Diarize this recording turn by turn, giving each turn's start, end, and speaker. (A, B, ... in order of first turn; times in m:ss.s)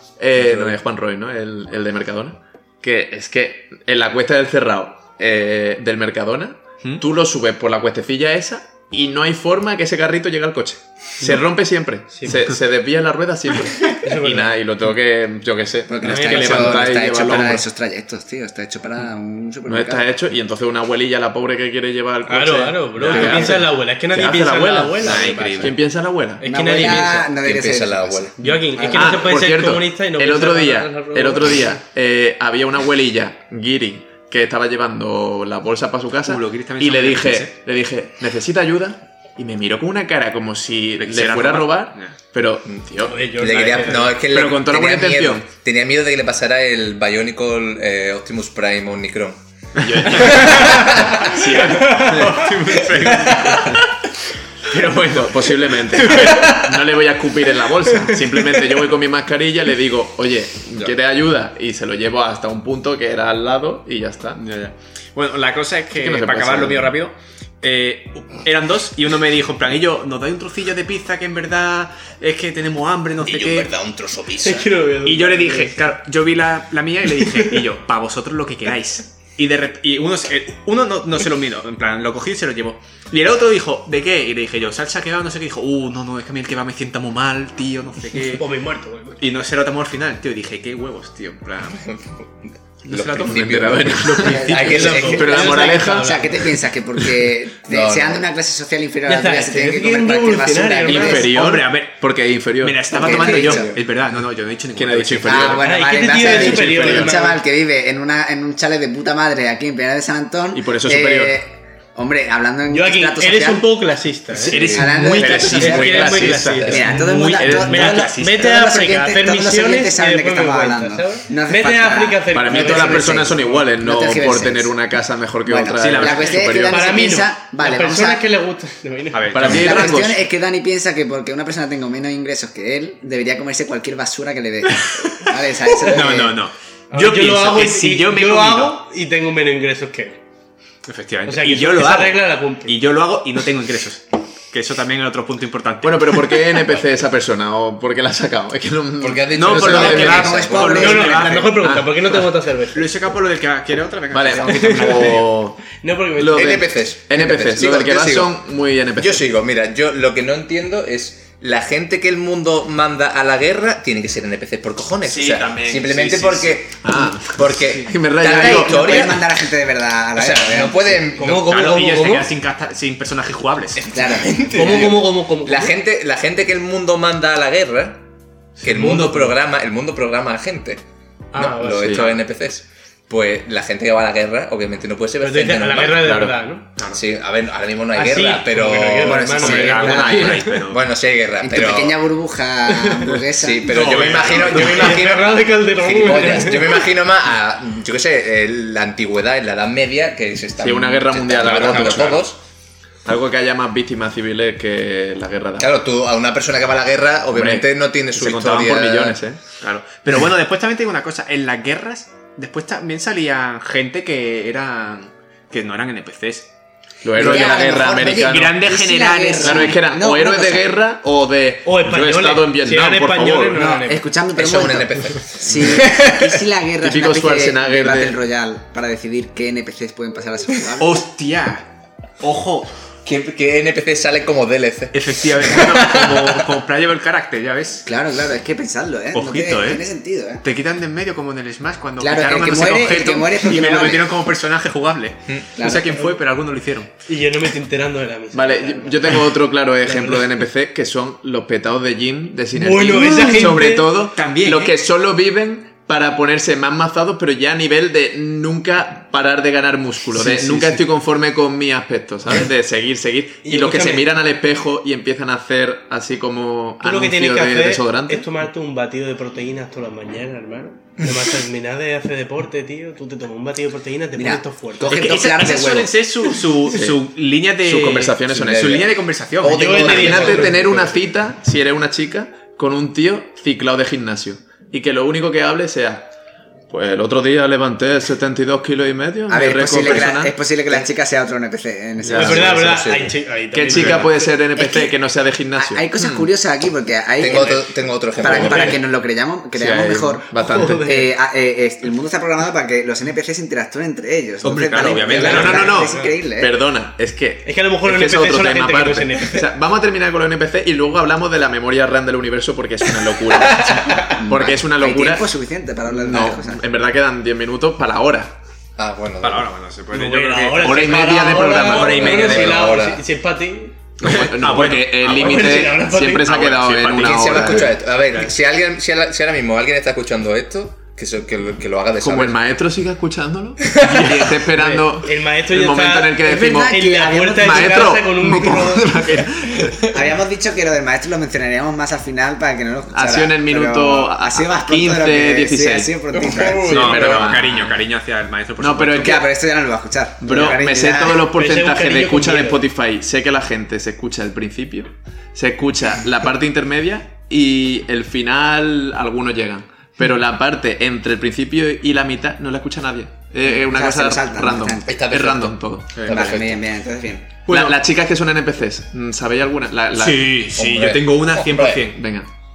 0:00.2-0:17.6 A
0:00.3-0:00.8 B
0:12.1-0:12.4 C
0:14.0-0:14.5 C
0:15.9-0:20.0 D
0:16.0-0:16.8 C
0:19.6-0:26.4 A
0:22.2-0:25.7 C
0:23.1-0:23.6 E
0:25.0-0:25.7 E
0:25.1-0:25.5 B
0:26.4-0:27.3 C
0:26.4-0:29.3 D
0:27.4-0:28.4 B
0:28.4-0:31.8 C
0:28.8-0:43.7 A
0:36.2-0:37.6 E
0:41.0-0:42.2 E
0:42.7-0:49.4 B
0:43.0-0:44.2 C
0:44.2-0:45.5 A
0:49.8-0:52.5 A
0:49.8-0:50.9 E
0:50.1-0:51.5 B
0:51.7-0:52.4 C
0:51.8-0:53.8 E
0:53.0-0:53.6 B
0:54.7-0:56.4 E
0:55.1-1:04.4 A
0:56.2-0:56.6 C
1:04.4-1:13.7 E
1:06.0-1:07.0 A
1:13.2-1:14.7 B
1:14.4-1:15.7 C
1:15.0-1:28.4 E
1:28.2-1:29.2 C
1:29.2-1:31.8 E
1:31.7-1:35.6 B
1:32.8-1:35.1 E
1:33.3-1:36.2 A
1:34.3-1:41.3 D
1:34.6-1:36.4 C
1:37.7-1:38.3 B
1:39.0-1:41.3 C
1:40.8-1:43.4 A
1:41.1-1:42.0 E
1:42.6-1:45.6 E
1:42.9-1:43.7 D
1:43.0-1:43.8 B
1:44.8-1:47.3 A
1:45.2-1:53.7 D
1:45.6-1:47.4 C
1:50.5-1:51.4 A
1:52.7-2:03.6 C
1:54.4-1:55.1 B
1:54.5-1:58.5 E
1:54.5-2:04.8 D
1:54.7-1:58.1 A
2:02.3-2:07.0 A
2:05.4-2:08.2 D
2:05.8-2:06.5 E
2:06.7-2:09.7 C
2:09.1-2:10.0 E
2:09.3-2:10.2 A
2:09.4-2:16.4 D
2:15.8-2:16.2 C
2:15.9-2:18.8 E
2:16.9-2:20.2 C
2:20.8-2:26.6 E
2:21.2-2:22.8 C
2:25.8-2:30.4 A
2:29.0-2:31.4 B
2:29.3-2:31.6 E
2:29.5-2:31.4 D
2:30.8-2:32.9 C
2:31.5-2:32.2 A
2:32.7-2:35.3 E
2:34.1-2:39.3 A
2:34.5-2:35.1 C
2:35.8-2:36.7 C
2:36.3-2:38.4 B
2:38.9-2:49.3 B
2:45.0-2:46.6 E
2:46.8-2:49.1 A
2:47.5-2:47.9 E
2:48.2-2:51.2 D
2:50.2-2:51.8 B
2:51.2-2:52.3 C
2:51.4-2:53.8 E
2:53.8-2:58.0 B
2:53.9-2:55.0 D
2:54.5-2:55.8 C
2:58.6-2:59.3 C
2:58.6-3:00.8 B
3:01.3-3:02.0 C
3:01.3-3:06.2 B
3:01.8-3:02.2 A
3:05.2-3:06.7 C
3:05.9-3:06.4 A
3:06.8-3:07.0 E
3:06.9-3:12.0 B
3:07.9-3:10.6 C
3:09.0-3:10.4 D
3:09.4-3:10.9 E
3:11.4-3:14.1 D
3:12.7-3:13.1 C
3:13.4-3:22.4 B
3:13.7-3:15.2 E
3:14.3-3:16.8 C
3:20.6-3:22.2 A
3:21.4-3:22.2 E
3:23.0-3:25.7 A
3:25.6-3:29.2 B
3:27.3-3:29.4 A
3:29.6-3:36.5 E
3:37.0-3:38.6 A
3:37.2-3:40.8 D
3:37.2-3:39.8 E
3:39.4-3:43.6 A
3:41.6-3:44.0 C
3:43.5-3:51.0 D
3:44.3-3:46.4 B
3:46.8-3:48.2 A
3:50.8-3:51.7 E
3:52.2-3:52.7 E
3:53.0-3:56.4 B
3:54.9-3:57.8 E
3:57.8-4:00.4 D
3:59.1-3:59.8 E
4:00.4-4:06.9 E
4:02.0-4:04.1 D
4:05.6-4:06.0 D
4:07.1-4:09.3 C
4:08.3-4:28.3 A
4:09.8-4:10.4 C
4:12.5-4:13.9 C
4:14.2-4:14.8 E
4:20.2-4:20.7 C
4:23.4-4:24.1 C
4:26.8-4:35.1 C
4:34.1-4:36.0 D
4:34.9-4:40.4 E
4:36.7-4:37.0 A
4:37.6-4:38.8 A
4:38.3-4:40.9 B
4:39.5-4:40.8 C
4:39.8-4:46.1 A
4:46.7-4:50.3 A
4:49.3-4:52.8 D
4:52.0-4:52.3 A
4:52.1-4:53.2 B
4:52.1-4:54.3 C
4:53.5-4:56.2 A
4:53.7-4:54.0 B
4:54.6-4:55.0 D
4:55.6-5:00.3 D
4:57.2-4:58.8 B
4:58.2-4:58.8 C
4:59.5-5:00.9 A
5:00.3-5:01.1 C
5:00.8-5:06.5 D
5:04.4-5:06.0 E
5:05.2-5:06.1 C
5:06.4-5:15.3 A
5:07.4-5:09.5 C
5:13.9-5:16.6 D
5:15.9-5:18.3 A
5:18.8-5:19.5 B
5:19.2-5:22.6 E
5:19.9-5:23.8 C
5:20.6-5:22.6 A
5:21.5-5:23.0 B
5:24.0-5:27.8 A
5:24.0-5:25.7 E
5:25.0-5:26.3 C
5:26.2-5:28.3 E
5:26.9-5:32.4 B
5:32.0-5:40.0 A
5:33.6-5:34.4 B
5:34.6-5:39.1 C
5:36.8-5:37.6 D
5:39.9-5:47.0 D
5:42.9-5:46.0 A
5:46.1-5:47.6 B
5:46.6-5:49.2 E
5:46.6-5:47.7 A
5:48.6-5:49.2 A
5:49.0-5:51.3 D
5:50.2-6:06.0 A
5:51.3-5:52.6 C
6:03.4-6:05.2 D
6:04.9-6:06.6 B
6:05.9-6:06.3 E
6:06.1-6:07.4 D
6:07.5-6:07.8 E
6:07.5-6:10.4 A
6:09.9-6:12.0 E
6:10.5-6:11.9 B
6:11.9-6:12.3 A